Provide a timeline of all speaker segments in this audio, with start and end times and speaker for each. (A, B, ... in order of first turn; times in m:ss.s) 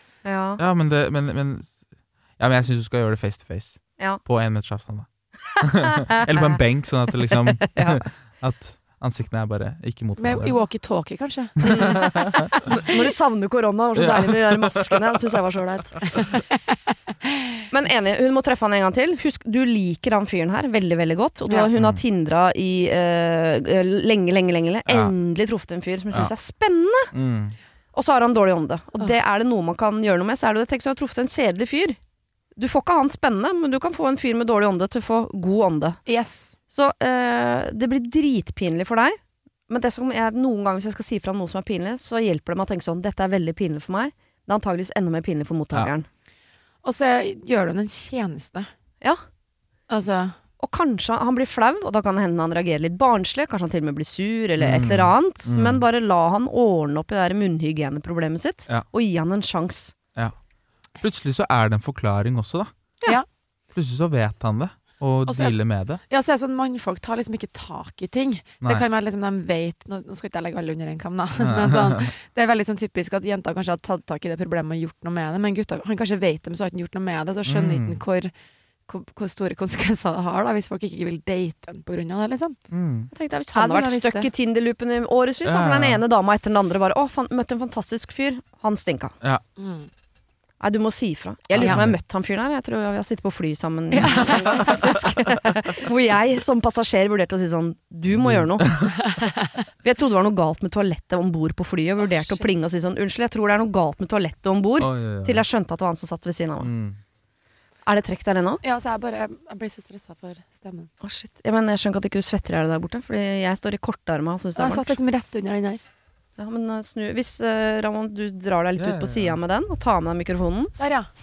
0:00.2-0:00.6 A
0:00.6-0:01.8 B
0:02.4-0:10.6 B
0:07.6-0:08.0 A
0:10.2-0:13.0 C
0:11.7-0:12.1 A
0:11.7-0:12.5 B
0:12.7-0:16.0 A
0:13.9-0:15.1 B
0:17.7-0:27.1 A
0:24.8-0:25.1 B
0:27.1-0:27.6 B
0:27.9-0:32.0 A
0:32.6-0:36.0 A
0:36.0-0:36.6 C
0:36.7-0:39.2 A
0:39.7-0:46.1 A
0:46.8-0:48.7 C
0:49.9-0:50.4 C
0:50.6-0:59.9 A
0:54.6-0:55.8 B
1:01.0-1:02.7 B
1:03.7-1:06.0 B
1:05.3-1:05.5 C
1:06.1-1:18.3 C
1:11.4-1:12.1 B
1:17.4-1:18.0 B
1:18.9-1:22.6 C
1:22.7-1:23.1 B
1:23.1-1:29.1 A
1:23.5-1:24.3 C
1:25.4-1:26.0 B
1:29.6-1:29.9 C
1:30.6-1:38.7 A
1:31.5-1:32.0 B
1:33.9-1:34.7 C
1:34.2-1:34.9 B
1:38.1-1:38.9 B
1:39.0-1:39.5 C
1:39.8-1:46.7 A
1:42.0-1:42.5 C
1:44.8-1:45.4 B
1:46.6-1:47.0 B
1:47.8-1:48.6 A
1:48.6-1:50.9 C
1:51.0-1:55.0 A
1:54.6-1:55.8 C
1:56.4-2:00.7 A
1:58.8-1:59.4 B
2:00.8-2:01.1 C